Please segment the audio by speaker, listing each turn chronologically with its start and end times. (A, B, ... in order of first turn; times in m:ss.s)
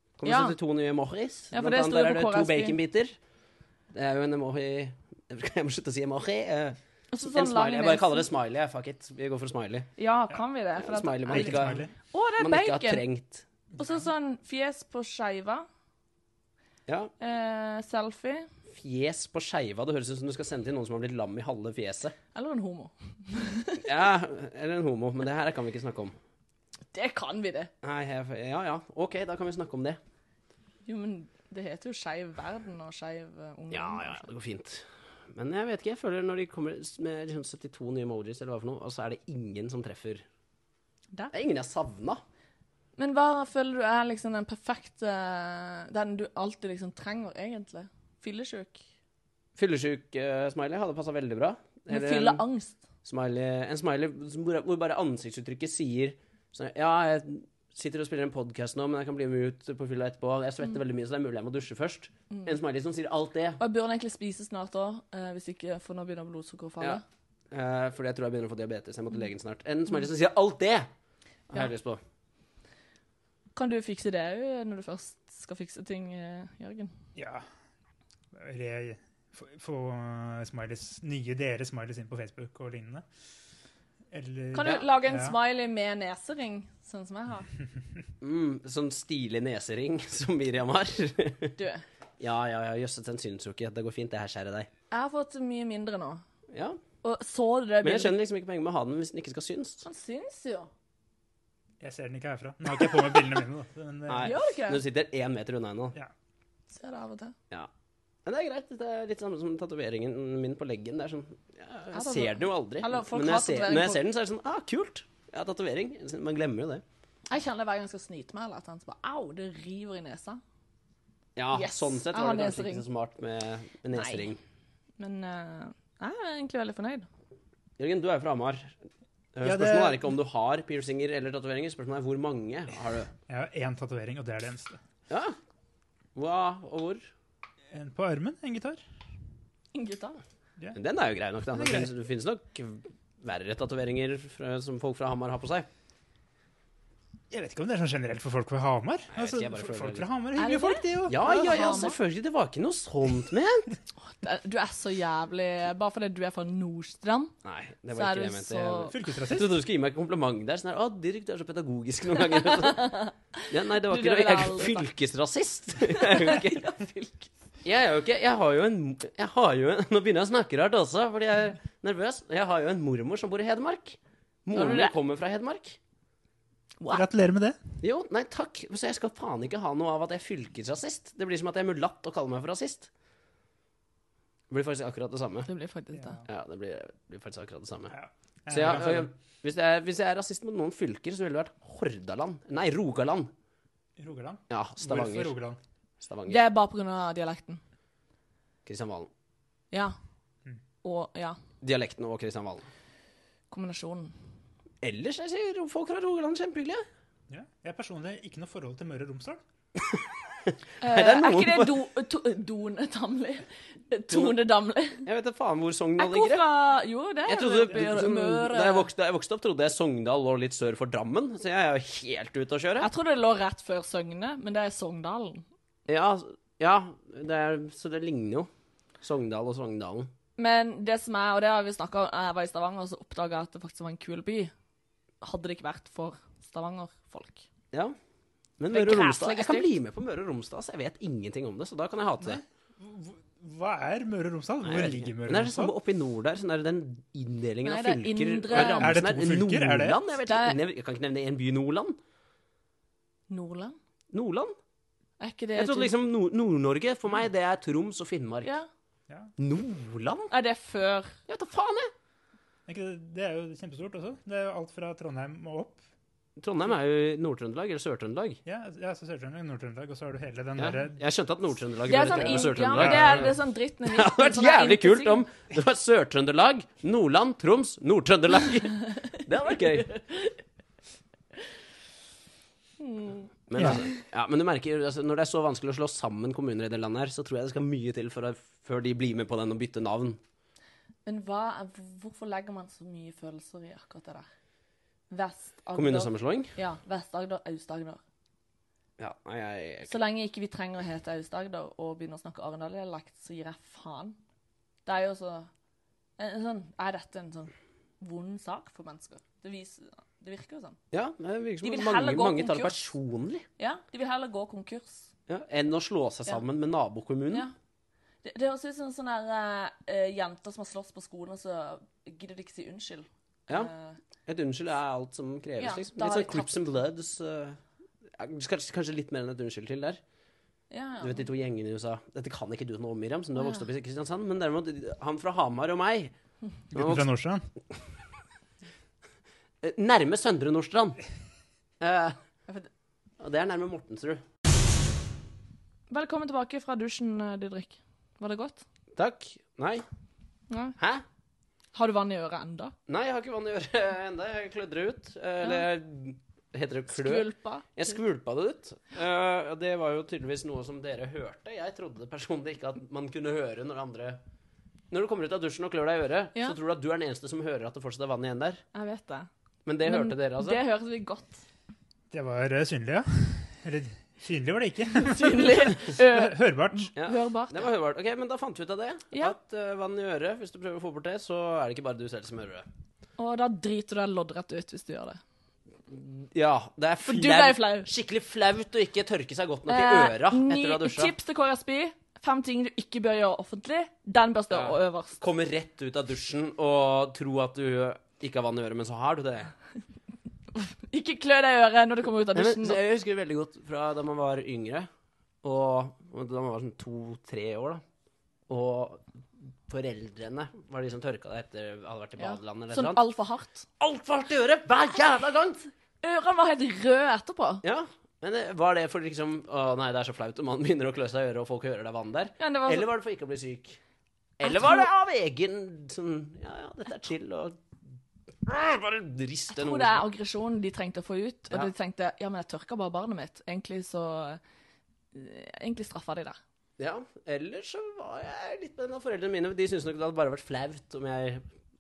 0:00.2-0:03.1 A
0:00.2-0:00.6 B
0:01.5-0:02.8 B
0:03.9-0:06.8 A
0:07.1-0:08.3 B
0:07.3-0:09.9 A
0:10.0-0:13.0 B
0:10.8-0:11.9 A
0:11.3-0:11.9 C
0:12.4-0:13.4 A
0:13.8-0:15.7 B
0:17.2-0:18.5 B
0:18.7-0:22.2 A
0:22.3-0:23.9 B
0:23.8-0:26.2 A
0:26.9-0:27.7 B
0:27.8-0:30.0 A
0:30.9-0:34.3 B
0:33.7-0:40.2 A
0:41.3-0:42.2 A
0:43.0-0:48.8 B
0:49.6-0:52.4 A
0:51.9-0:52.8 B
0:53.0-1:03.6 A
1:03.6-1:07.0 B
1:06.8-1:10.9 A
1:11.5-1:12.0 A
1:13.6-1:16.9 B
1:17.2-1:17.4 C
1:18.3-1:23.0 C
1:24.1-1:25.4 C
1:24.5-1:27.5 B
1:28.2-1:31.5 A
1:31.6-1:31.8 B
1:32.2-1:34.7 A
1:34.9-1:36.2 B
1:36.5-1:36.8 A
1:37.0-1:38.1 B
1:37.8-1:39.8 A
1:39.8-1:40.7 B
1:41.8-1:44.4 C
1:44.1-1:46.0 A
1:44.2-1:44.8 B
1:46.7-1:47.4 B
1:48.3-1:56.8 A
1:51.9-1:54.0 B
1:57.3-2:00.4 B
2:01.4-2:04.4 A
2:01.5-2:02.8 B
2:03.9-2:04.3 B
2:05.0-2:07.1 B
2:07.8-2:08.8 A
2:09.4-2:13.1 A
2:09.4-2:10.0 C
2:13.3-2:14.8 C
2:15.1-2:15.4 A
2:16.2-2:17.1 A
2:17.7-2:18.8 C
2:19.7-2:20.2 B
2:20.8-2:25.7 A
2:21.6-2:21.9 C
2:27.3-2:31.4 C
2:29.1-2:30.1 A
2:30.4-2:32.0 B
2:31.1-2:33.8 A
2:34.0-2:37.4 B
2:37.4-2:42.9 A
2:38.0-2:38.9 B
2:38.9-2:39.5 C
2:42.4-2:44.9 B
2:43.5-2:46.6 A
2:45.9-2:47.3 B
2:47.6-2:55.8 A
2:54.5-2:54.9 B
2:56.9-2:57.6 C
2:57.8-3:02.9 A
3:04.5-3:05.5 A
3:05.5-3:06.2 B
3:05.9-3:06.2 C
3:06.3-3:08.0 A
3:07.9-3:09.1 C
3:08.5-3:13.3 A
3:14.0-3:15.6 C
3:14.5-3:15.3 A
3:16.0-3:16.4 A
3:16.3-3:17.6 B
3:18.7-3:19.1 A
3:20.8-3:21.4 B
3:21.6-3:22.7 A
3:23.5-3:24.1 B
3:24.8-3:26.8 A
3:27.3-3:29.4 C
3:29.8-3:31.7 A
3:30.8-3:35.0 B
3:34.1-3:34.4 A
3:35.0-3:36.4 A
3:36.0-3:38.9 B
3:37.3-3:42.9 A
3:42.8-3:45.5 B
3:45.9-3:48.5 A
3:49.0-3:50.1 A
3:50.4-3:54.5 B
3:55.2-3:57.5 B
3:58.6-4:02.4 A
3:58.7-3:59.7 B
4:02.2-4:05.7 C
4:04.6-4:12.0 A
4:07.6-4:09.0 B
4:08.5-4:10.0 C
4:10.2-4:10.6 B
4:13.3-4:13.8 B
4:14.1-4:14.6 A
4:15.2-4:15.9 B
4:15.6-4:18.5 A
4:19.4-4:20.3 A
4:20.3-4:21.2 B
4:21.3-4:21.9 A
4:22.7-4:25.8 C
4:26.4-4:28.4 A
4:28.5-4:31.0 C
4:30.6-4:39.9 A
4:31.9-4:35.2 B
4:32.1-4:33.3 C
4:39.5-4:40.4 B
4:42.8-4:43.9 B
4:43.5-4:50.2 A
4:43.6-4:43.8 C
4:51.1-4:54.3 B
4:55.1-4:58.0 B
4:55.8-4:56.6 A
4:59.0-4:59.9 A
4:59.9-5:04.2 B
5:04.8-5:05.5 B
5:06.2-5:10.8 B
5:10.9-5:13.4 A
5:11.6-5:12.9 B
5:13.6-5:15.1 B
5:15.3-5:17.5 A
5:18.2-5:24.0 B
5:24.3-5:27.6 A
5:25.6-5:26.7 B
5:28.2-5:30.0 A
5:30.7-5:31.3 B
5:31.0-5:36.1 A
5:33.4-5:33.6 B
5:36.7-5:37.5 C
5:36.7-5:37.1 A
5:39.6-5:41.0 A
5:41.8-5:42.2 A
5:43.2-5:44.2 A
5:45.9-5:48.6 B
5:49.0-5:49.8 A
5:50.5-5:50.8 B
5:51.7-5:52.7 B
5:52.9-6:04.2 A
5:56.9-5:57.7 B
6:04.9-6:08.6 A
6:08.7-6:09.3 B
6:09.7-6:10.6 A
6:09.8-6:11.4 B
6:12.1-6:16.9 C
6:15.0-6:17.7 B
6:17.0-6:22.7 A
6:23.2-6:25.2 B
6:25.9-6:31.1 A
6:27.0-6:27.9 B
6:29.7-6:35.2 B
6:34.5-6:39.5 A
6:40.5-6:42.8 B
6:42.3-6:44.9 A
6:45.4-6:47.8 A
6:48.5-6:49.0 A
6:49.7-6:53.0 A
6:52.2-6:53.7 B
6:53.8-6:55.7 A
6:56.0-6:57.6 B
6:57.6-7:03.8 A
7:02.4-7:02.9 B
7:04.4-7:07.6 A
7:04.4-7:04.9 B
7:08.4-7:10.0 A
7:09.5-7:14.4 B
7:15.1-7:16.4 B
7:16.8-7:21.4 A